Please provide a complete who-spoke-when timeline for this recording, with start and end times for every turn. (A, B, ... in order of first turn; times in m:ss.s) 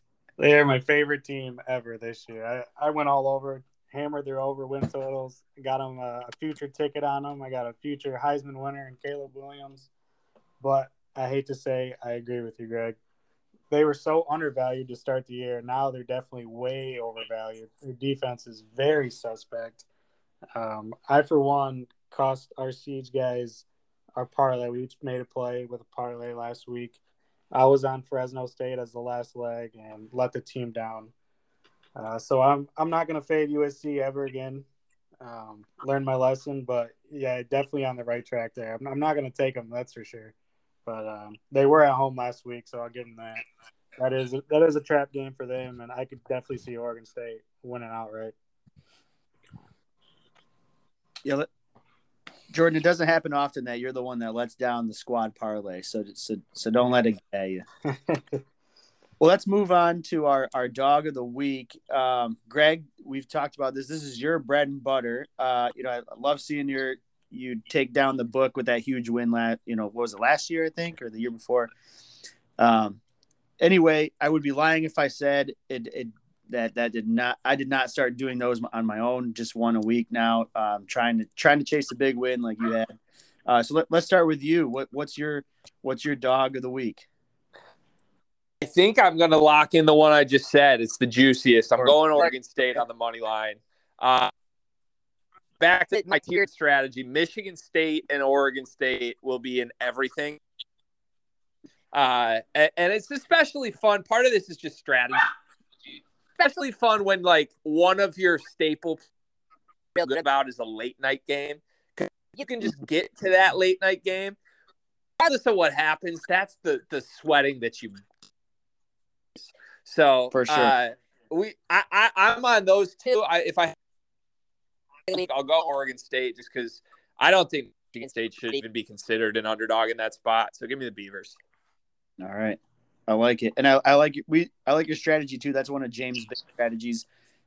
0:00.4-0:09.9 A
0:10.6-0:13.0 A
0:13.7-0:19.9 A
0:20.6-0:23.6 A
0:24.2-0:27.0 A
0:27.5-0:31.1 A
0:32.0-0:34.7 A
0:35.2-0:40.4 A
0:40.9-0:43.4 A
0:44.0-0:48.3 A
0:52.5-0:57.6 B
0:58.1-0:58.4 A
0:59.2-1:11.7 B
1:12.6-1:13.0 B
1:13.6-1:22.9 B
1:23.5-1:27.1 B
1:28.6-1:34.3 C
1:35.6-1:40.4 C
1:41.9-1:45.3 C
1:46.4-1:49.0 C
1:50.0-1:54.4 C
1:55.2-1:58.0 C
1:59.4-2:03.8 C
2:00.3-2:00.7 B
2:05.1-2:11.4 C
2:12.2-2:17.1 B